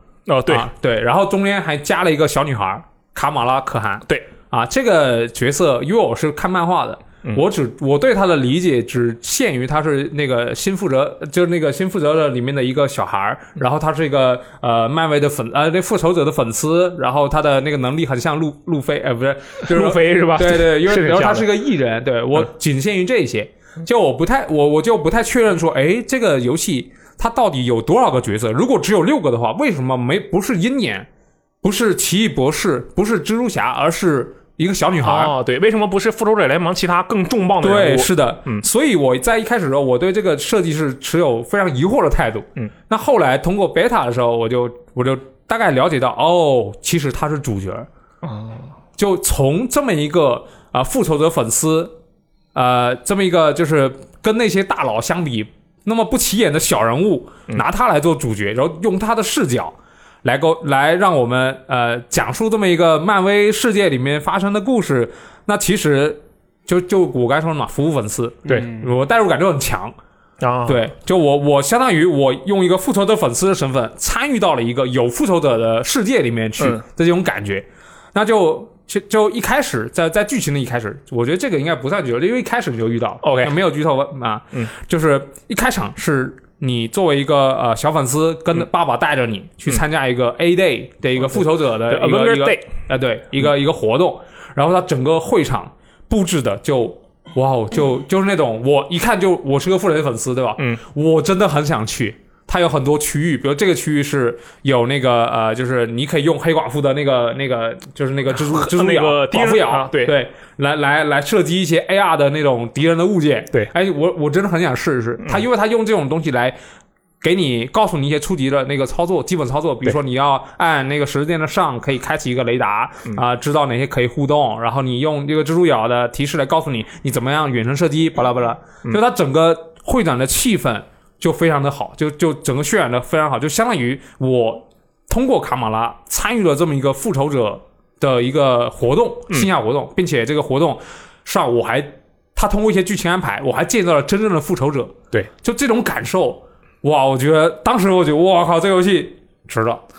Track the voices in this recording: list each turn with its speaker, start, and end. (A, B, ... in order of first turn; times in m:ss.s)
0:00.3-0:00.7 A
0:00.5-0:31.1 B
0:19.7-0:21.5 A
0:31.6-0:35.3 B
0:35.0-0:38.6 A
0:37.6-0:47.9 B
0:48.2-0:48.7 A
0:49.0-0:51.9 B
0:52.5-1:09.9 B
1:08.4-1:08.7 A
1:10.4-1:10.8 A
1:10.7-1:56.6 B
1:23.2-1:23.6 A
1:31.9-1:32.7 A
1:48.3-1:50.2 A
1:57.2-2:29.8 B